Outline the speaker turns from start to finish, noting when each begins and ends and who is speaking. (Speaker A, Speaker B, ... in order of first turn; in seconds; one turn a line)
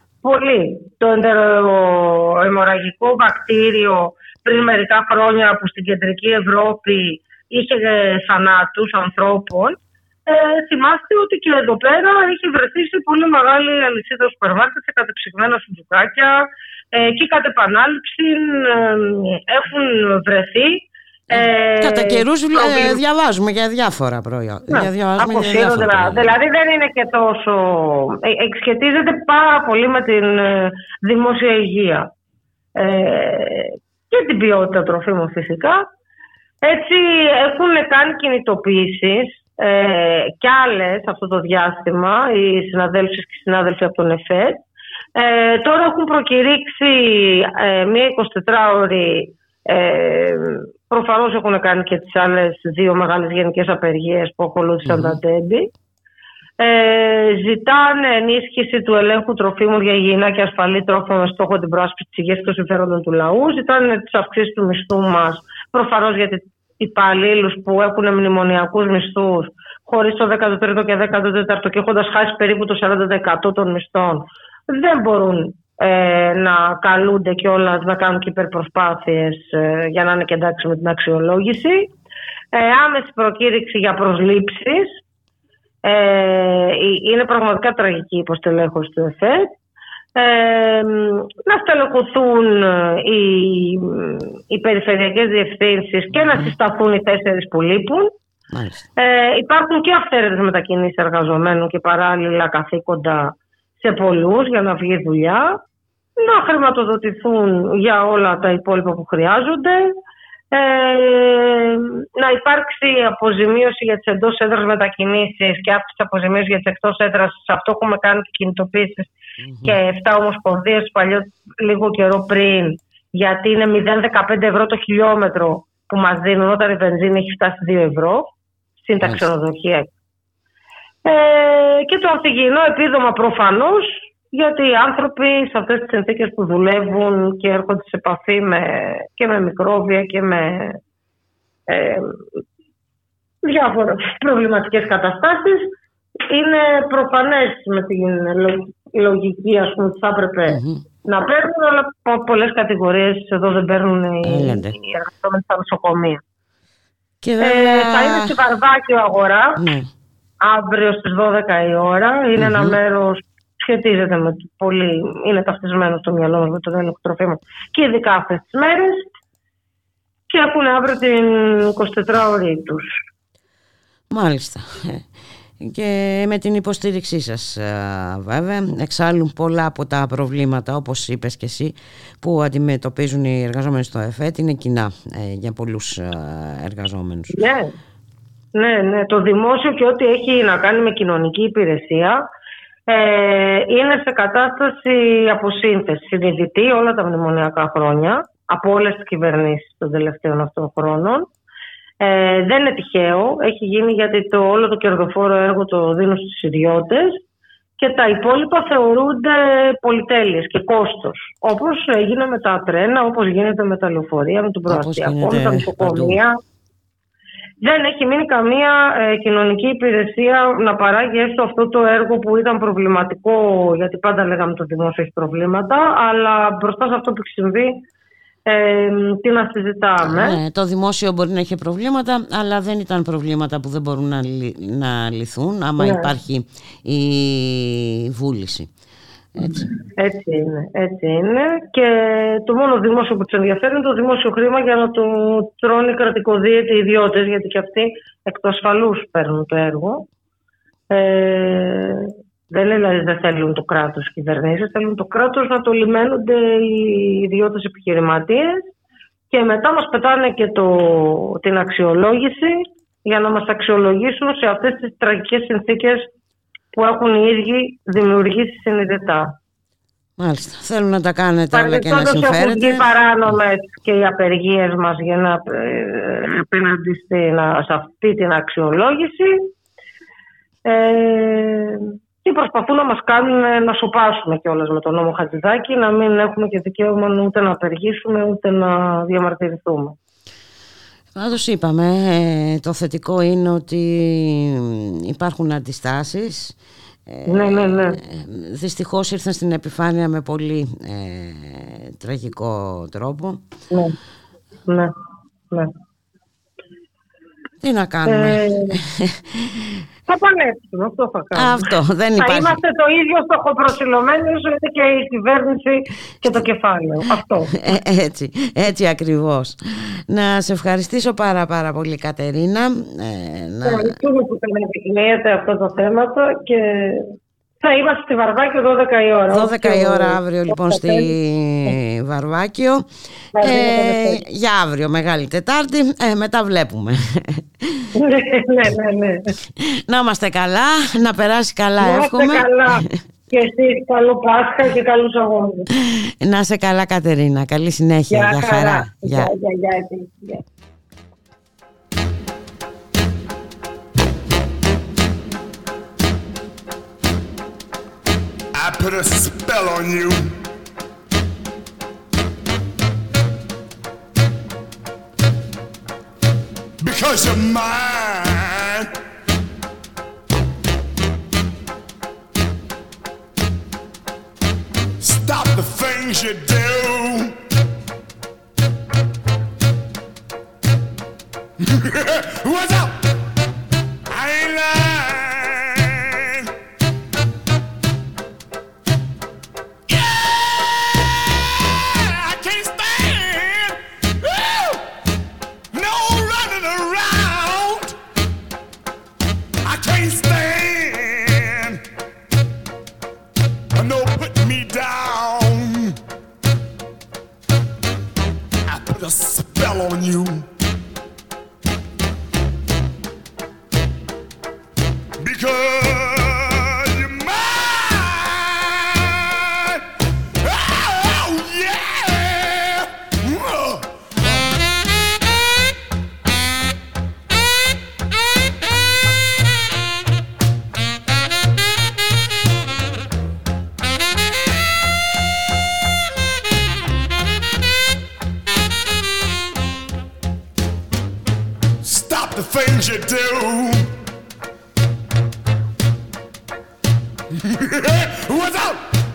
Speaker A: 0.2-23.0
Speaker B: 21.3-26.4
Speaker A: 24.7-32.1
Speaker A: 32.8-35.9
Speaker A: 36.6-44.6
Speaker A: 45.2-55.7
Speaker B: 54.9-55.2
Speaker A: 56.6-81.9
Speaker A: 82.5-85.0
Speaker A: 85.8-89.5
Speaker A: 90.2-98.1
Speaker B: 98.5-98.9
Speaker A: 99.0-105.6
Speaker A: 106.2-109.9
Speaker A: 110.5-119.1
Speaker B: 119.4-119.8
Speaker A: 119.7-128.3
Speaker A: 128.8-129.9
Speaker B: 129.0-129.3
Speaker A: 131.1-140.8
Speaker A: 141.7-142.2
Speaker A: 143.4-145.7
Speaker A: 146.3-156.2
Speaker B: 150.5-150.9
Speaker B: 154.2-154.8
Speaker B: 157.2-158.3
Speaker A: 157.4-159.6
Speaker B: 159.6-159.9
Speaker A: 160.4-169.1
Speaker B: 162.4-162.8
Speaker A: 170.3-173.0
Speaker B: 174.1-175.1
Speaker B: 175.6-187.4
Speaker A: 187.3-187.7
Speaker A: 188.5-192.3
Speaker A: 192.9-201.3
Speaker A: 202.0-207.2
Speaker A: 207.8-216.4
Speaker B: 214.7-216.2
Speaker A: 217.6-227.8
Speaker A: 228.5-230.4
Speaker B: 230.0-238.7
Speaker A: 235.8-236.1
Speaker B: 239.3-239.7
Speaker A: 240.0-250.1
Speaker A: 250.9-258.7
Speaker A: 259.3-266.1
Speaker A: 266.7-269.3
Speaker B: 270.2-272.9
Speaker A: 271.5-279.5
Speaker A: 280.7-290.0
Speaker B: 291.1-296.6
Speaker B: 297.1-303.4
Speaker A: 297.3-298.0
Speaker B: 307.6-309.8
Speaker A: 308.1-308.7
Speaker A: 310.1-317.5
Speaker B: 311.4-312.6
Speaker B: 317.5-324.0
Speaker A: 323.7-331.1
Speaker B: 329.3-337.9
Speaker A: 333.4-334.2
Speaker A: 338.0-339.3
Speaker B: 339.6-343.0
Speaker A: 341.8-345.7
Speaker B: 345.9-349.3
Speaker A: 348.1-350.4
Speaker C: 358.5-360.4
Speaker C: 366.8-368.9
Speaker C: 375.0-377.3
Speaker C: 381.7-382.9
Speaker C: 384.1-386.5
Speaker C: 389.9-394.8
Speaker C: 395.7-397.9
Speaker C: 399.6-401.8
Speaker C: 403.7-406.0
Speaker C: 408.7-410.5
Speaker C: 415.2-419.8
Speaker C: 420.4-423.9
Speaker C: 441.8-443.9
Speaker C: 447.4-448.8